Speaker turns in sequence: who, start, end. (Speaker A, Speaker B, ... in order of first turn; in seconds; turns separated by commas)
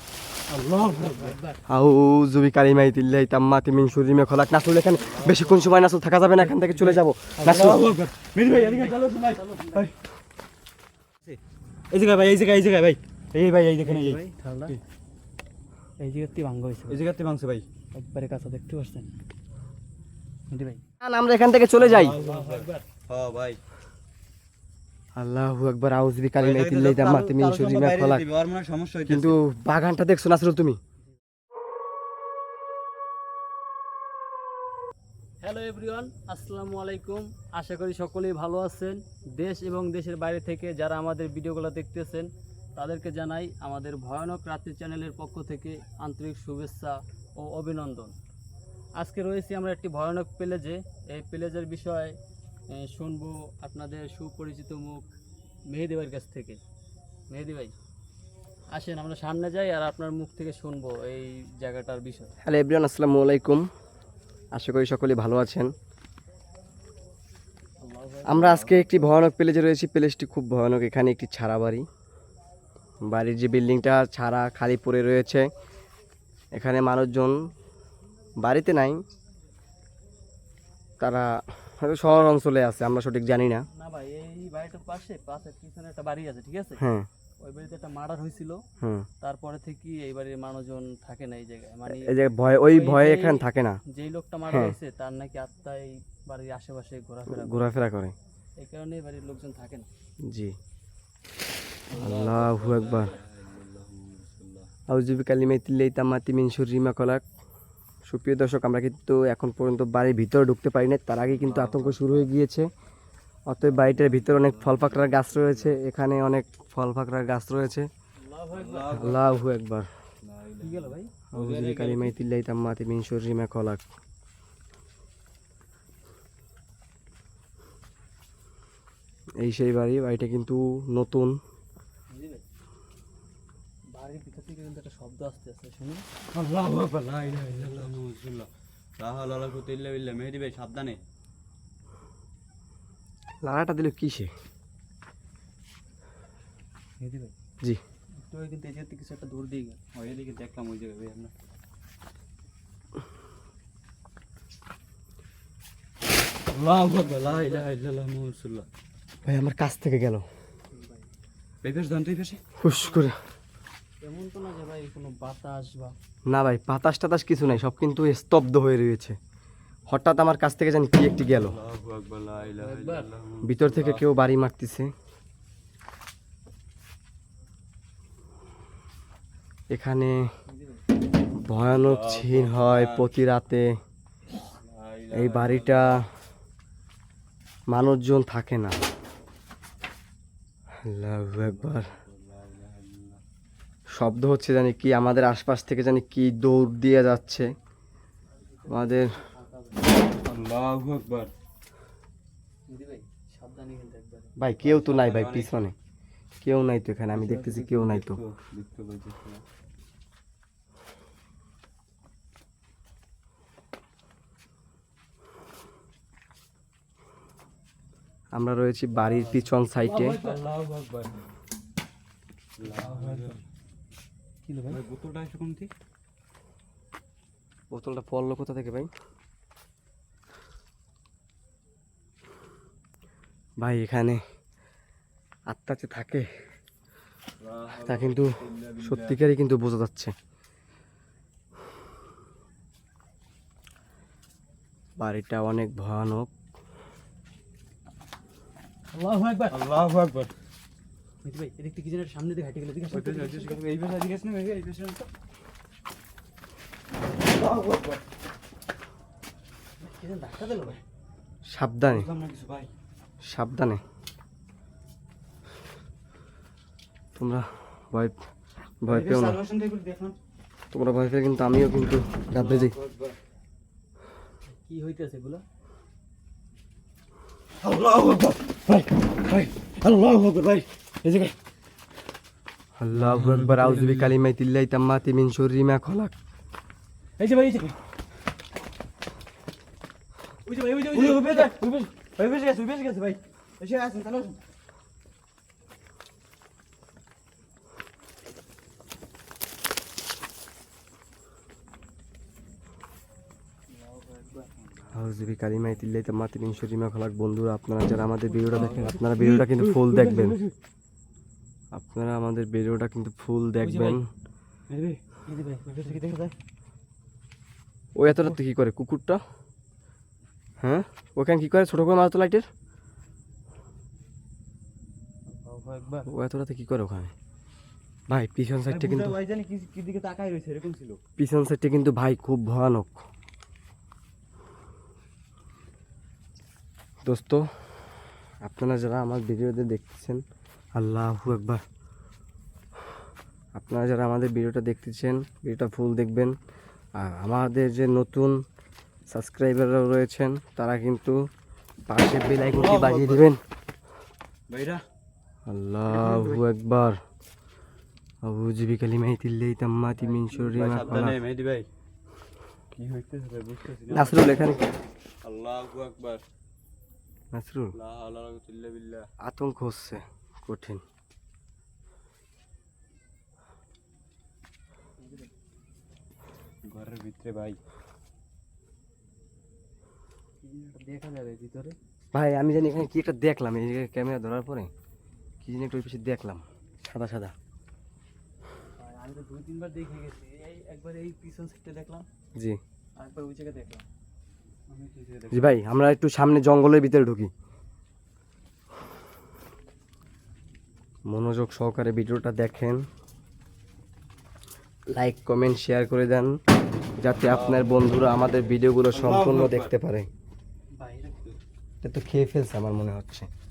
Speaker A: 0.5-1.4, Speaker B: 0.8-1.6, Speaker C: 1.7-7.8, Speaker A: 5.0-5.6, Speaker A: 6.4-9.9, Speaker B: 7.4-7.7, Speaker B: 8.4-9.9, Speaker A: 11.9-14.8, Speaker B: 13.8-14.8, Speaker B: 16.0-17.0, Speaker A: 16.9-17.6, Speaker B: 17.9-19.1, Speaker B: 20.5-20.8, Speaker C: 21.0-22.2, Speaker A: 21.8-23.6, Speaker B: 22.0-22.8, Speaker C: 25.2-28.3, Speaker A: 26.4-29.4, Speaker C: 29.1-30.8, Speaker B: 35.4-48.1, Speaker B: 49.0-52.2, Speaker B: 52.7-55.1, Speaker B: 55.7-56.6, Speaker B: 57.3-57.8, Speaker B: 58.7-62.3, Speaker C: 62.4-63.7, Speaker C: 64.5-65.7, Speaker B: 67.8-68.6, Speaker C: 68.3-71.8, Speaker A: 68.4-69.1, Speaker C: 73.0-75.5, Speaker C: 76.5-77.5, Speaker C: 78.4-79.0, Speaker C: 81.0-83.7, Speaker B: 83.8-86.8, Speaker C: 86.8-87.1, Speaker B: 87.4-88.6, Speaker C: 88.8-89.1, Speaker B: 89.2-97.7, Speaker C: 91.9-93.8, Speaker C: 94.5-94.8, Speaker C: 97.3-98.2, Speaker B: 98.6-99.9, Speaker C: 100.3-100.6, Speaker A: 101.9-104.7, Speaker C: 101.9-103.2, Speaker C: 104.9-107.2, Speaker C: 108.1-112.7, Speaker A: 111.3-112.1, Speaker C: 113.5-117.9, Speaker A: 113.6-115.7, Speaker B: 118.2-119.0, Speaker A: 118.5-119.4, Speaker C: 118.9-119.9, Speaker A: 120.2-122.2, Speaker B: 120.6-121.1, Speaker C: 121.3-123.8, Speaker C: 129.4-131.4, Speaker B: 132.1-132.4, Speaker B: 133.9-136.1, Speaker A: 136.3-141.0, Speaker B: 137.5-137.8, Speaker C: 143.4-144.3, Speaker B: 147.0-147.3, Speaker B: 148.2-149.8, Speaker A: 149.9-151.3, Speaker A: 156.5-158.7, Speaker B: 157.0-157.6, Speaker C: 159.2-160.3, Speaker B: 160.7-161.1, Speaker A: 161.6-162.4, Speaker C: 162.6-163.2, Speaker B: 164.0-165.9, Speaker C: 166.3-169.2, Speaker C: 169.9-171.6, Speaker A: 171.3-174.1, Speaker B: 172.5-173.1, Speaker C: 173.4-174.9, Speaker C: 179.7-180.3, Speaker B: 180.5-180.8, Speaker C: 181.4-183.7, Speaker A: 181.6-183.2, Speaker A: 184.6-186.0, Speaker C: 185.1-186.1, Speaker C: 187.7-188.8, Speaker C: 190.8-191.9, Speaker A: 191.4-193.2, Speaker C: 193.9-197.5, Speaker B: 198.4-200.0, Speaker C: 198.7-199.1, Speaker A: 200.2-201.3, Speaker B: 202.7-204.3, Speaker C: 204.4-205.8, Speaker A: 204.6-205.6, Speaker C: 206.4-208.2, Speaker A: 207.1-209.4, Speaker C: 218.3-220.2, Speaker A: 219.1-221.2, Speaker B: 219.8-220.4, Speaker A: 222.6-223.4, Speaker B: 222.6-223.4, Speaker B: 224.4-224.8, Speaker A: 224.7-225.7, Speaker C: 227.7-228.9, Speaker C: 233.6-234.2, Speaker C: 235.5-236.3, Speaker A: 237.4-239.2, Speaker C: 237.8-240.1, Speaker C: 245.0-246.3, Speaker B: 248.9-249.6, Speaker A: 249.5-250.3, Speaker B: 251.2-253.6, Speaker A: 252.9-255.1, Speaker A: 257.2-258.0, Speaker B: 259.8-260.8, Speaker C: 261.5-262.1, Speaker A: 261.9-262.7, Speaker C: 263.2-263.8, Speaker C: 267.2-268.2, Speaker C: 268.8-269.4, Speaker A: 268.9-270.2, Speaker C: 270.7-272.8, Speaker A: 272.3-273.2, Speaker B: 274.5-275.4, Speaker A: 277.6-281.3, Speaker C: 282.8-286.1, Speaker A: 282.9-284.1, Speaker B: 287.2-287.7, Speaker B: 290.5-291.9, Speaker A: 290.9-294.4, Speaker B: 303.7-304.7, Speaker C: 304.9-310.4, Speaker B: 308.3-309.0, Speaker A: 308.5-310.5, Speaker C: 311.7-314.1, Speaker B: 313.6-314.0, Speaker A: 314.7-315.0, Speaker B: 315.3-316.0, Speaker A: 315.7-316.4, Speaker C: 317.9-319.2, Speaker C: 320.6-322.5, Speaker B: 325.3-326.1, Speaker C: 326.1-327.1, Speaker C: 328.1-329.2, Speaker A: 328.7-331.0, Speaker C: 331.2-333.0, Speaker C: 337.1-337.5, Speaker C: 338.4-340.2, Speaker C: 340.8-341.6, Speaker C: 343.6-346.4, Speaker C: 347.0-348.4, Speaker C: 349.1-351.2, Speaker C: 351.9-353.4, Speaker A: 352.5-353.3, Speaker A: 354.5-354.8, Speaker C: 355.5-357.0, Speaker A: 355.9-356.4, Speaker C: 358.2-361.2, Speaker B: 360.0-361.1, Speaker A: 360.5-361.7, Speaker A: 362.8-364.6, Speaker C: 363.9-364.6, Speaker A: 365.2-366.2, Speaker C: 367.3-367.7, Speaker A: 367.8-369.1, Speaker C: 369.2-370.8, Speaker B: 375.0-375.3, Speaker A: 376.6-377.6, Speaker B: 380.4-381.8, Speaker C: 382.1-384.7, Speaker C: 385.4-387.4, Speaker B: 388.8-392.1, Speaker B: 393.0-393.9, Speaker A: 394.7-395.6, Speaker C: 395.3-397.3, Speaker C: 401.1-402.9, Speaker C: 404.9-406.4, Speaker C: 407.0-410.1, Speaker A: 407.2-408.1, Speaker A: 408.9-409.7, Speaker B: 410.8-411.3, Speaker C: 411.8-413.3